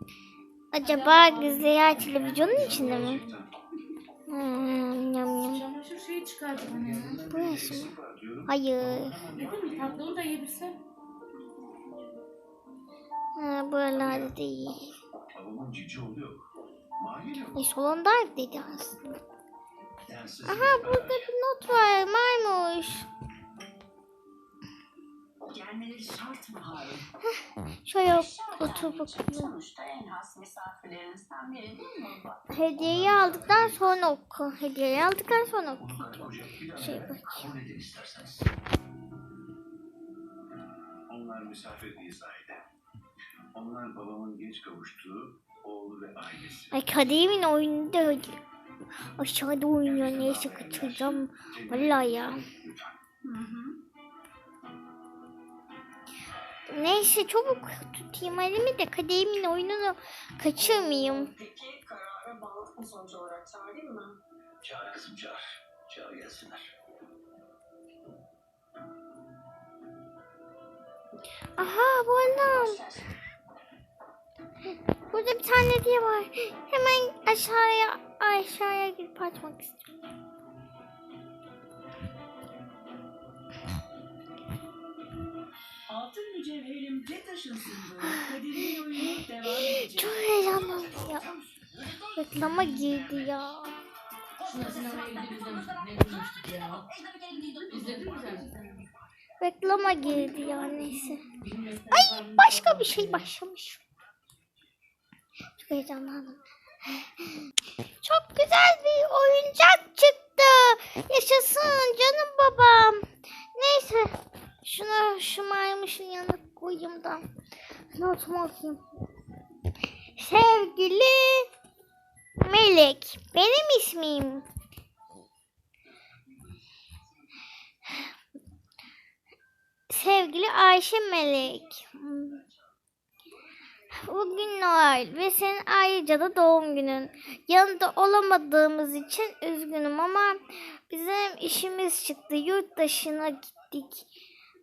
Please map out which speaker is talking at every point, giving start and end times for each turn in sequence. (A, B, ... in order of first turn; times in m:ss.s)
0:00.7-0:03.2 A
0:00.8-0:03.3 B
0:01.9-0:03.5 C
0:04.3-0:05.6 A
0:05.4-0:07.2 B
0:06.6-0:10.2 C
0:07.3-0:09.2 A
0:09.3-0:10.8 B
0:13.4-0:15.0 A
0:14.0-0:14.3 C
0:15.3-0:16.4 C
0:17.0-0:17.6 C
0:17.5-0:19.2 A
0:20.0-0:21.3 C
0:20.5-0:23.1 A
0:25.4-0:27.0 D
0:27.8-0:29.6 A
0:28.1-0:32.5 D
0:32.5-0:37.6 A
0:32.8-0:34.0 C
0:35.8-0:38.5 C
0:41.1-0:42.7 C
0:43.5-0:46.8 C
0:46.7-0:48.4 A
0:49.2-0:52.5 A
0:49.8-0:52.9 C
0:53.2-0:53.8 D
0:56.7-1:01.3 A
1:01.0-1:04.2 D
1:04.6-1:06.7 C
1:11.6-1:12.8 A
1:12.4-1:13.1 D
1:15.1-1:19.8 A
1:25.9-1:31.2 D
1:28.0-1:31.3 A
1:32.1-1:33.8 A
1:34.4-1:38.5 D
1:34.4-1:36.9 B
1:37.7-1:38.9 B
1:39.4-1:41.3 A
1:39.9-1:43.3 B
1:41.9-1:43.8 A
1:45.6-1:47.5 A
1:48.0-1:57.3 A
1:58.0-1:58.8 A
2:00.2-2:01.5 A
2:02.4-2:04.5 A
2:09.9-2:12.4 A
2:13.9-2:24.1 A